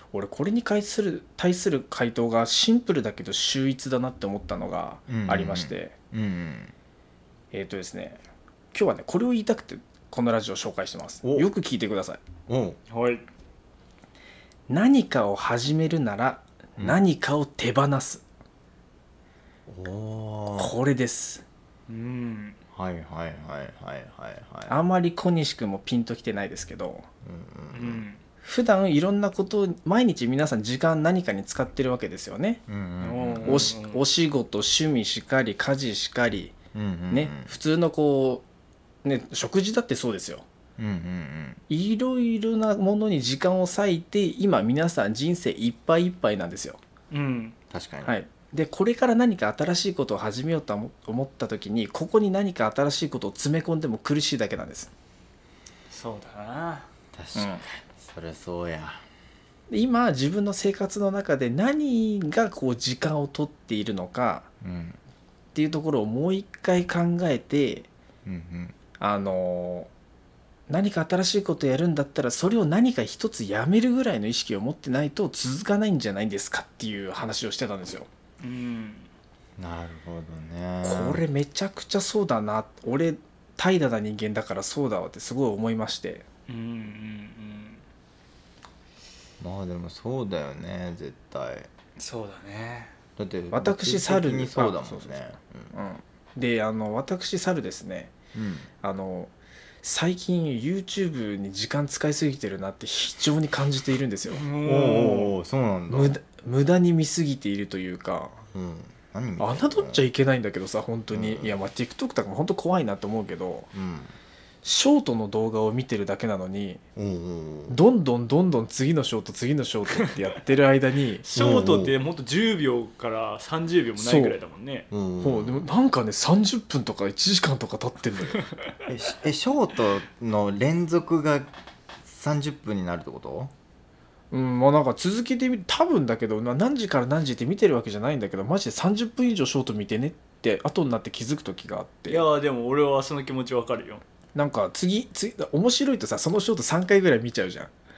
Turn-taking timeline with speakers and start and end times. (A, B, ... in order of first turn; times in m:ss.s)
0:00.1-0:05.9 A
0:05.1-0:06.7 B
0:07.5-0:08.2 A
0:08.7-0:12.2 A
0:12.5-0:12.8 B
0:12.9-0:13.2 C
0:14.7-0:18.2 A
0:19.7-0:20.7 B
0:20.5-0:21.4 A
0:21.9-0:22.6 C
0:22.7-0:24.8 B
0:24.7-0:27.1 A
0:27.2-0:28.0 B
0:27.7-0:28.2 C
0:28.4-0:32.6 A
0:32.7-0:33.7 B
0:33.0-0:34.0 C
0:33.4-0:36.6 A
0:36.7-0:37.5 B
0:37.1-0:38.4 A
0:39.0-0:40.4 A
0:40.8-0:41.6 B
0:41.7-0:46.8 A
0:47.1-0:47.6 C
0:47.7-0:48.1 B
0:48.0-0:54.9 A
0:55.9-0:56.9 C
0:57.1-0:59.0 B
0:57.4-0:57.6 A
0:59.7-1:04.5 A
1:04.6-1:05.0 B
1:05.5-1:07.9 A
1:08.2-1:08.8 B
1:09.0-1:09.9 A
1:10.7-1:18.1 A
1:18.4-1:19.1 C
1:19.6-1:21.2 B
1:20.8-1:26.2 A
1:26.5-1:27.8 C
1:29.4-1:31.7 B
1:32.0-1:33.0 C
1:33.2-1:35.7 B
1:33.5-1:38.2 A
1:38.3-1:38.7 B
1:38.8-1:39.3 A
1:39.8-1:44.4 A
1:44.3-1:45.4 C
1:44.6-1:46.2 B
1:45.9-1:48.4 A
1:48.5-1:50.0 B
1:49.4-1:53.7 A
1:51.1-1:51.5 B
1:53.7-1:54.1 B
1:54.6-1:56.8 A
1:57.0-1:57.8 B
1:57.7-2:01.2 A
2:01.2-2:04.9 C
2:01.4-2:02.0 B
2:04.0-2:04.4 A
2:04.9-2:05.7 B
2:05.2-2:08.4 A
2:08.4-2:08.7 C
2:08.9-2:11.5 B
2:12.0-2:13.5 B
2:14.3-2:22.2 A
2:22.1-2:24.0 C
2:24.4-2:27.7 A